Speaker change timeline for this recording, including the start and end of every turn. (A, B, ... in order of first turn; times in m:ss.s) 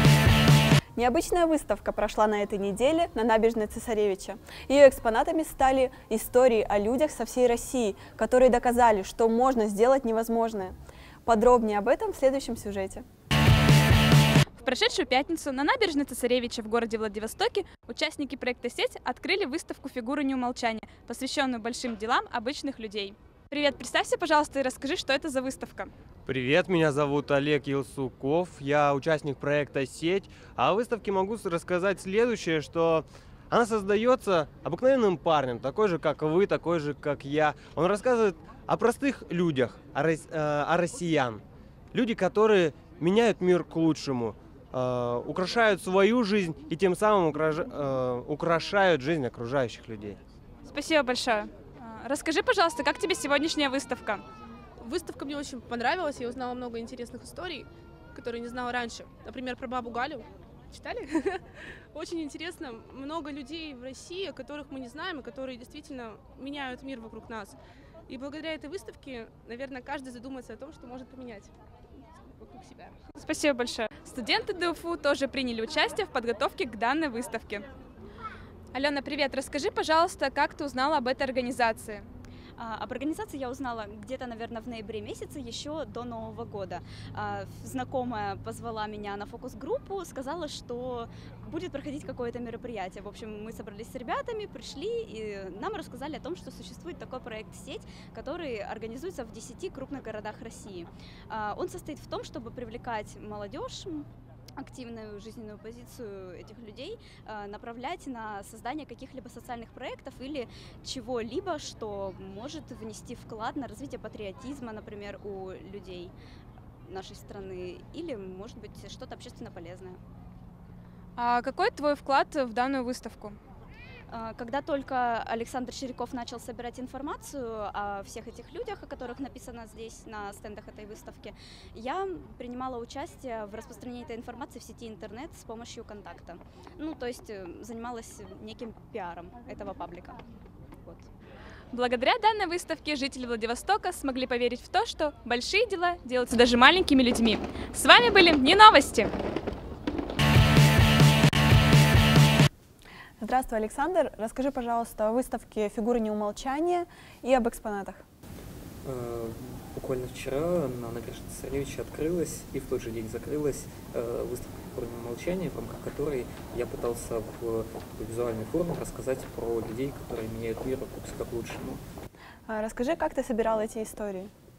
0:01.0-0:13.0 A
0:14.6-0:25.9 B
0:26.2-0:41.4 C
0:41.9-0:50.2 C
0:50.6-0:54.2 B
0:54.8-1:07.6 D
1:08.1-1:11.5 D
1:12.4-1:12.9 D
1:13.1-1:17.6 B
1:18.7-1:22.0 B
1:22.6-1:44.1 E
1:44.6-1:56.1 E
1:56.8-2:00.0 E
2:01.2-2:03.4 B
2:04.1-2:20.2 E
2:20.8-2:21.1 E
2:21.7-2:29.1 B
2:33.2-2:38.0 A
2:38.8-2:51.8 F
2:52.5-2:54.3 A